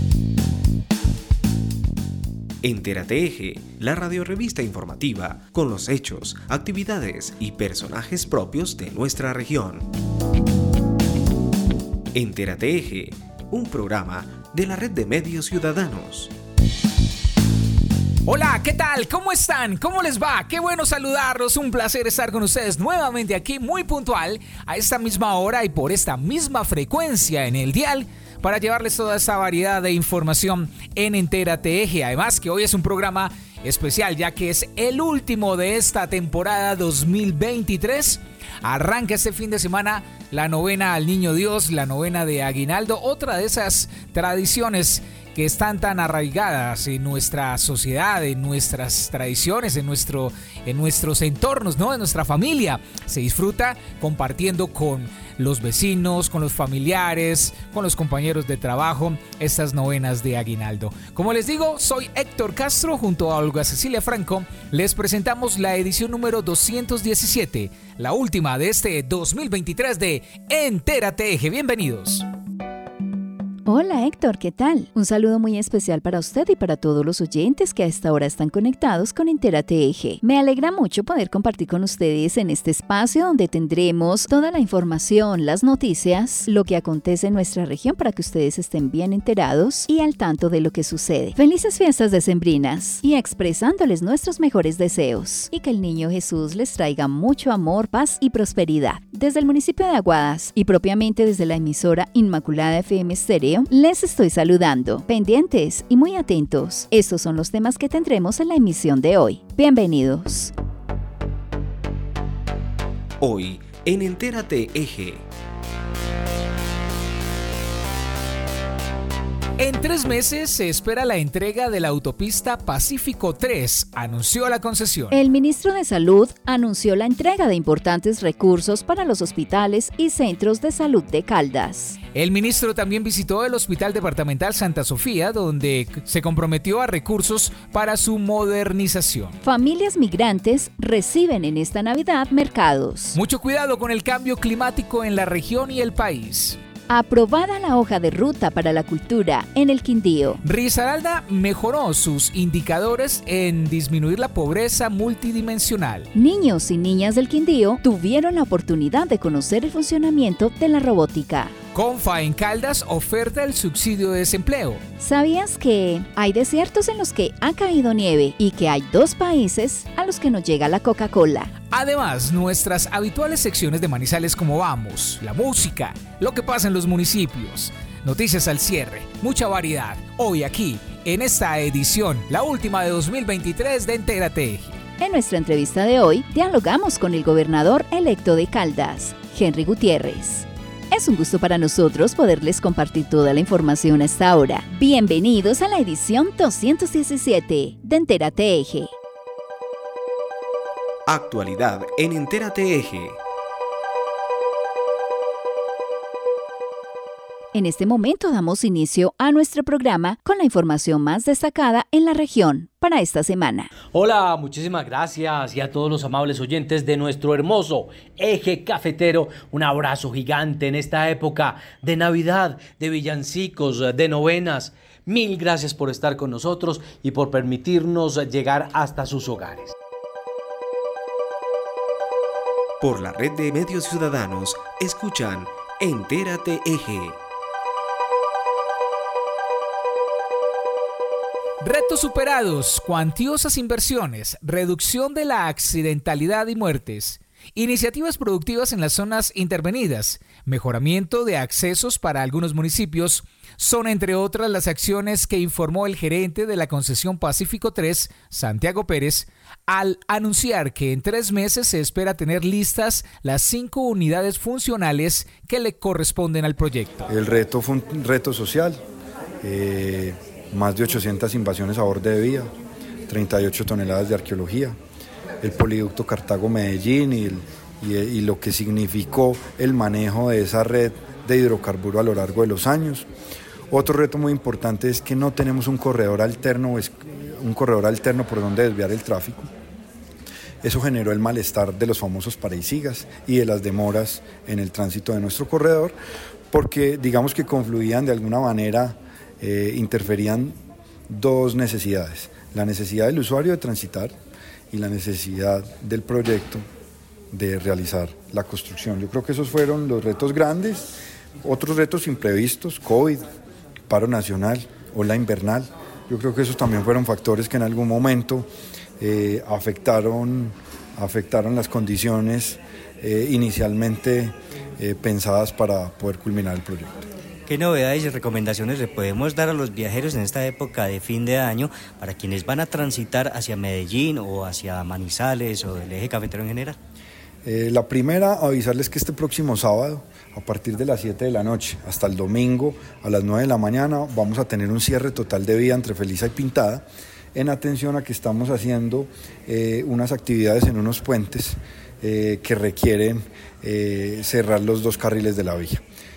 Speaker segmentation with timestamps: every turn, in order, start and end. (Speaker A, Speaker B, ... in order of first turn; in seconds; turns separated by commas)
Speaker A: 2.6-9.9, Speaker A: 12.1-16.3, Speaker B: 18.3-72.3, Speaker C: 73.7-110.5, Speaker A: 113.2-115.3, Speaker B: 119.6-125.2, Speaker C: 125.1-132.0, Speaker B: 132.2-139.4, Speaker C: 139.4-143.2, Speaker B: 143.1-146.6, Speaker C: 146.9-150.4, Speaker B: 150.4-156.1, Speaker C: 156.1-161.6, Speaker B: 161.7-164.8, Speaker C: 165.0-171.5, Speaker B: 171.7-184.8, Speaker C: 185.0-198.9, Speaker A: 201.1-203.2, Speaker C: 207.5-213.7, Speaker D: 213.9-229.7, Speaker A: 232.8-237.2, Speaker B: 241.6-267.1, Speaker E: 267.1-268.8, Speaker E: 269.4-272.5, Speaker E: 273.1-274.8, Speaker E: 275.4-283.1, Speaker E: 283.7-289.5, Speaker E: 290.6-295.9, Speaker E: 296.5-304.1, Speaker E: 304.7-306.7, Speaker E: 307.3-313.3, Speaker E: 313.9-318.5, Speaker E: 319.0-327.1, Speaker F: 327.5-336.8, Speaker E: 337.4-355.8